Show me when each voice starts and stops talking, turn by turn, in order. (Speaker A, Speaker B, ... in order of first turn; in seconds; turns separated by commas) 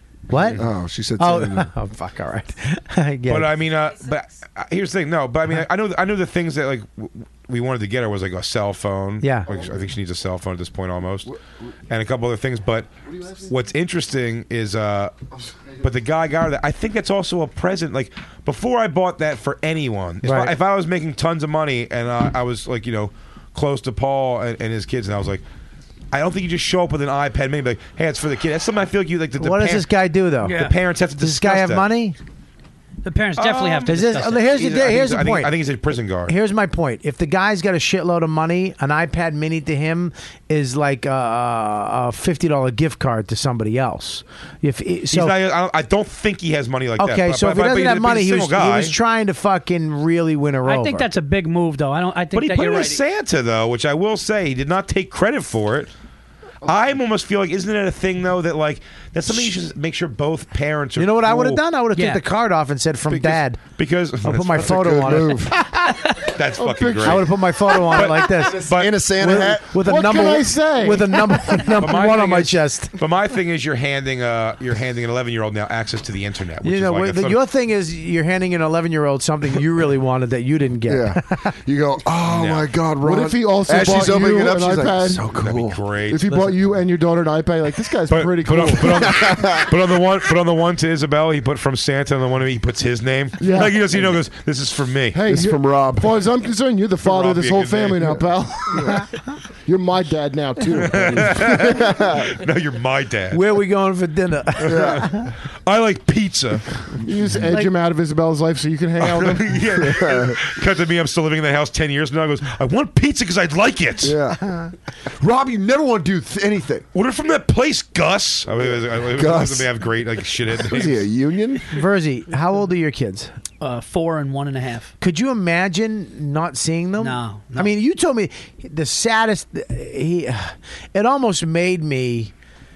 Speaker A: 0.3-0.6, Speaker B: 0.4-0.6, Speaker C: 0.6-1.7, Speaker A: 1.2-3.5, Speaker B: 3.3-11.3, Speaker A: 9.2-9.5, Speaker B: 11.9-15.1, Speaker B: 15.8-25.4, Speaker A: 20.2-20.5, Speaker B: 26.1-29.9, Speaker A: 29.4-30.6, Speaker D: 30.4-30.8, Speaker B: 30.4-31.9, Speaker A: 31.2-32.2, Speaker D: 33.0-34.6, Speaker B: 33.4-36.3, Speaker A: 33.9-35.5, Speaker A: 36.3-45.3, Speaker B: 45.1-48.9, Speaker A: 47.0-51.1, Speaker D: 50.6-53.0, Speaker B: 52.3-55.9, Speaker B: 56.6-61.6, Speaker A: 61.0-63.6, Speaker D: 61.9-62.2, Speaker B: 63.1-65.2, Speaker A: 64.2-65.5, Speaker C: 64.6-65.5, Speaker B: 66.2-69.5, Speaker E: 66.6-67.3, Speaker A: 67.0-68.6, Speaker C: 68.4-69.7, Speaker A: 69.2-72.9, Speaker E: 69.7-71.8, Speaker B: 71.8-77.4, Speaker A: 76.6-81.5, Speaker C: 80.9-85.8, Speaker B: 82.3-82.7, Speaker E: 83.0-85.2, Speaker B: 85.3-86.3, Speaker E: 86.1-89.2, Speaker B: 88.1-95.2, Speaker C: 88.9-89.7, Speaker E: 93.4-93.8, Speaker E: 95.1-99.0, Speaker C: 95.3-96.1, Speaker B: 97.0-98.3, Speaker E: 99.7-102.1, Speaker B: 100.7-103.4, Speaker A: 103.3-105.3, Speaker B: 104.6-105.0, Speaker C: 104.6-105.2, Speaker B: 105.6-107.0, Speaker E: 107.0-109.7, Speaker B: 109.0-114.2, Speaker C: 109.8-110.4, Speaker C: 114.0-114.5, Speaker C: 115.2-116.8, Speaker B: 116.9-121.1, Speaker C: 118.6-119.7, Speaker C: 120.5-121.7, Speaker A: 121.7-123.3, Speaker D: 123.6-124.9, Speaker A: 125.0-132.3, Speaker D: 127.0-127.7